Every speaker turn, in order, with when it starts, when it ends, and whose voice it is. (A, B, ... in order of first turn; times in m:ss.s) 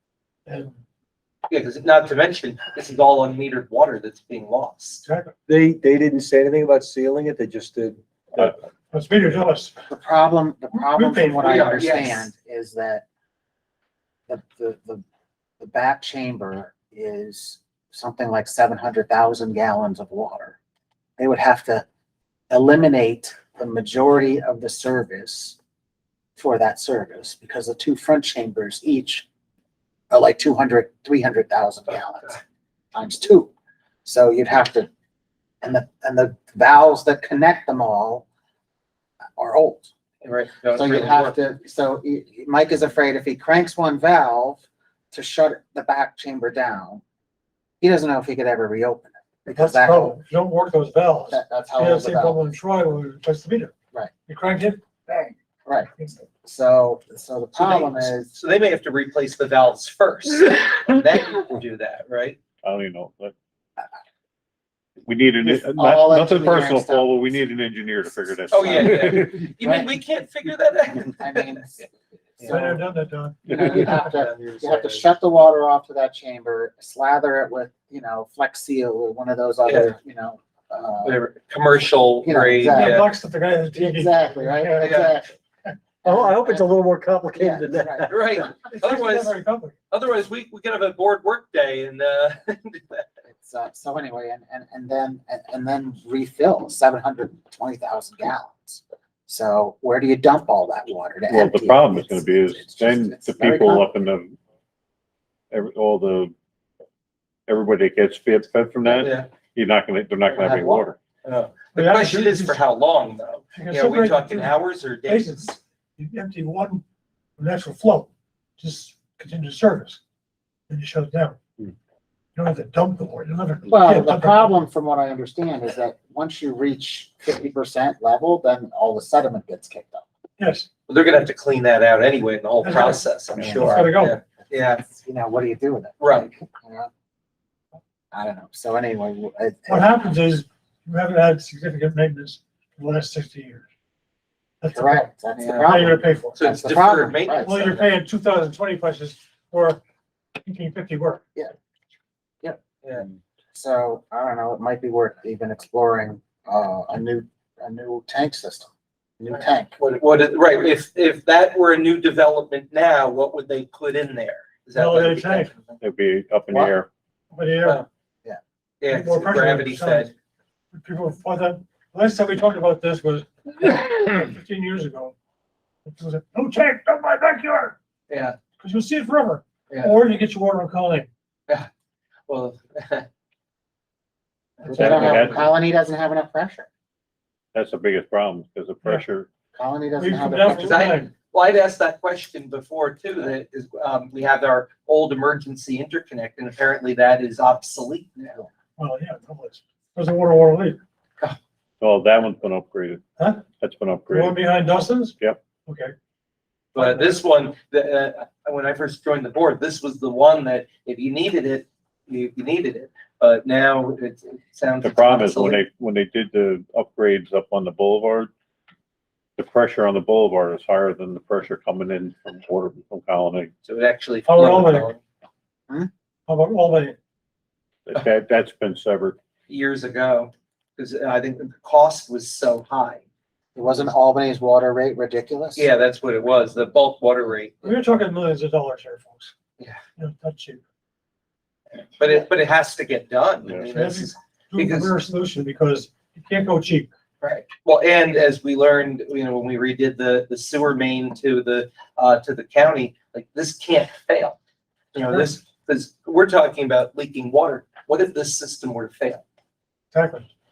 0:00.5-0:00.7 A
0:01.5-0:05.0 B
0:05.0-0:05.3 A
0:05.5-0:08.5 C
0:08.9-0:09.7 A
0:09.9-0:13.0 D
0:10.8-0:11.7 A
0:11.4-0:12.3 B
0:14.3-0:15.0 D
0:15.6-0:20.6 D
0:21.2-0:21.8 D
0:22.5-0:25.6 D
0:26.4-0:29.3 D
0:30.1-0:32.4 D
0:32.9-0:33.5 D
0:34.0-0:34.9 D
0:35.6-0:38.3 D
0:39.4-0:39.9 D
0:40.2-0:41.4 B
0:40.7-0:47.0 D
0:47.8-0:50.2 D
0:49.5-0:53.7 A
0:51.3-0:52.4 D
0:54.3-0:55.4 A
0:55.7-0:55.9 D
0:56.0-0:56.2 A
0:56.4-0:58.3 D
0:57.5-1:02.4 B
1:02.6-1:03.3 E
1:05.1-1:09.5 E
1:05.4-1:07.4 D
1:08.5-1:11.6 B
1:09.6-1:09.9 D
1:11.1-1:12.9 D
1:12.4-1:12.6 B
1:12.5-1:13.5 A
1:13.5-1:21.2 D
1:13.5-1:14.0 E
1:13.6-1:15.0 B
1:19.6-1:20.0 B
1:21.0-1:23.1 B
1:22.2-1:23.0 D
1:22.7-1:25.1 A
1:23.7-1:25.4 D
1:24.8-1:25.1 B
1:26.0-1:26.7 D
1:26.0-1:28.4 C
1:27.3-1:28.6 D
1:28.1-1:29.4 B
1:28.6-1:29.8 A
1:29.9-1:33.0 B
1:33.3-1:43.9 D
1:41.3-1:44.3 E
1:45.5-1:46.3 E
1:47.5-1:51.0 E
1:48.9-1:49.3 B
1:50.4-1:50.8 D
1:51.2-1:55.6 B
1:51.7-1:52.6 A
1:53.6-1:56.8 A
1:57.4-1:58.1 A
1:58.6-2:00.0 A
2:00.7-2:01.4 A
2:02.4-2:04.5 A
2:03.7-2:10.0 D
2:10.4-2:10.7 A
2:10.9-2:14.8 B
2:12.6-2:14.2 A
2:13.3-2:16.9 D
2:16.0-2:16.3 B
2:18.1-2:20.0 D
2:19.7-2:23.6 A
2:24.6-2:25.1 A
2:24.7-2:27.9 D
2:25.4-2:25.8 B
2:25.6-2:26.4 A
2:26.4-2:27.8 B
2:27.4-2:29.8 A
2:30.4-2:31.2 A
2:32.4-2:39.8 D
2:32.8-2:33.1 B
2:39.8-2:45.8 B
2:44.7-2:45.5 A
2:45.8-2:46.9 E
2:47.3-2:47.8 A
2:48.8-2:50.1 B
2:48.9-2:50.1 A
2:50.7-2:55.2 A
2:55.9-2:57.8 A
2:58.1-2:58.4 B
2:58.6-3:01.1 A
2:59.7-3:00.0 B
3:02.3-3:03.1 B
3:04.6-3:05.4 B
3:04.7-3:06.7 D
3:04.7-3:05.5 E
3:07.5-3:09.3 E
3:09.6-3:10.8 D
3:10.0-3:11.1 A
3:10.5-3:18.4 B
3:18.8-3:20.8 A
3:21.8-3:23.0 E
3:23.2-3:23.4 A
3:23.6-3:24.4 E
3:24.1-3:25.9 A
3:26.8-3:35.6 B
3:26.8-3:27.2 A
3:34.8-3:38.3 E
3:39.4-3:43.5 E
3:43.6-3:45.0 B
3:44.3-3:44.9 A
3:46.3-3:47.0 A
3:47.9-3:49.2 E
3:49.5-3:53.0 B
3:53.6-3:55.7 D
3:55.6-3:57.8 B
3:57.6-3:59.3 A
4:00.0-4:00.6 A
4:02.0-4:05.0 B
4:03.7-4:06.9 A
4:07.2-4:14.4 B
4:14.9-4:19.2 B
4:19.9-4:20.3 A